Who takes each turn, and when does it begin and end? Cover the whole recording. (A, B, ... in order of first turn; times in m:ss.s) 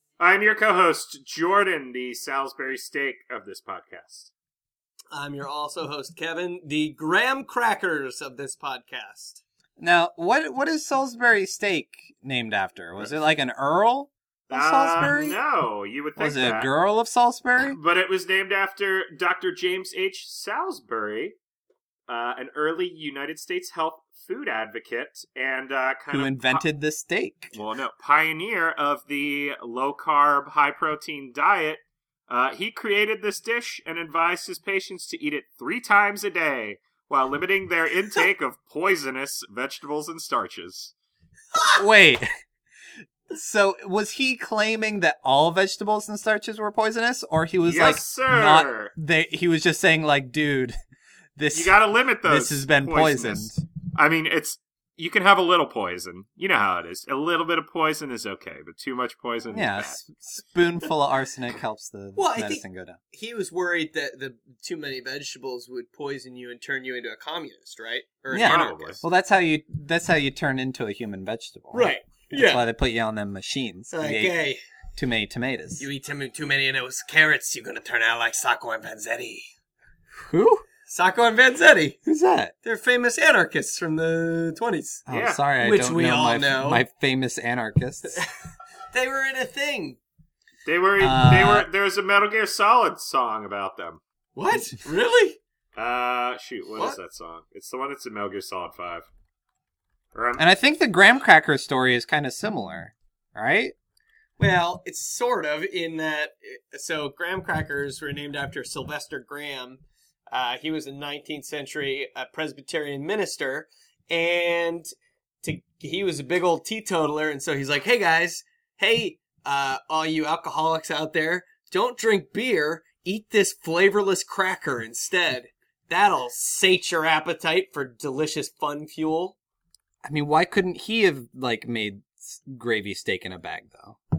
0:00.2-0:04.3 A
0:05.1-0:09.4 B
0:09.8-0:15.4 C
0:14.5-0:16.7 A
0:16.2-0:17.8 C
0:17.7-0:21.4 A
0:22.1-0:26.6 A
0:26.1-0:27.5 C
0:27.5-0:40.9 A
0:41.7-0:42.3 C
0:43.3-0:50.8 C
0:47.6-0:48.9 A
0:51.4-0:53.6 C
0:51.5-1:00.1 A
0:59.5-1:03.0 C
1:02.1-1:09.0 B
1:08.3-1:14.4 C
1:08.4-1:09.0 A
1:11.7-1:12.6 B
1:13.9-1:14.6 B
1:15.0-1:15.8 C
1:15.8-1:19.5 B
1:20.1-1:20.6 C
1:20.9-1:22.0 B
1:22.0-1:22.5 C
1:22.6-1:25.0 B
1:25.1-1:28.2 C
1:25.1-1:25.4 A
1:25.6-1:26.8 B
1:28.9-1:30.0 B
1:30.6-1:34.0 A
1:31.0-1:31.7 C
1:34.3-1:35.4 B
1:35.7-1:39.1 A
1:40.1-1:40.4 A
1:40.4-1:43.7 C
1:44.4-1:54.9 B
1:55.4-2:09.4 B
2:10.0-2:14.0 C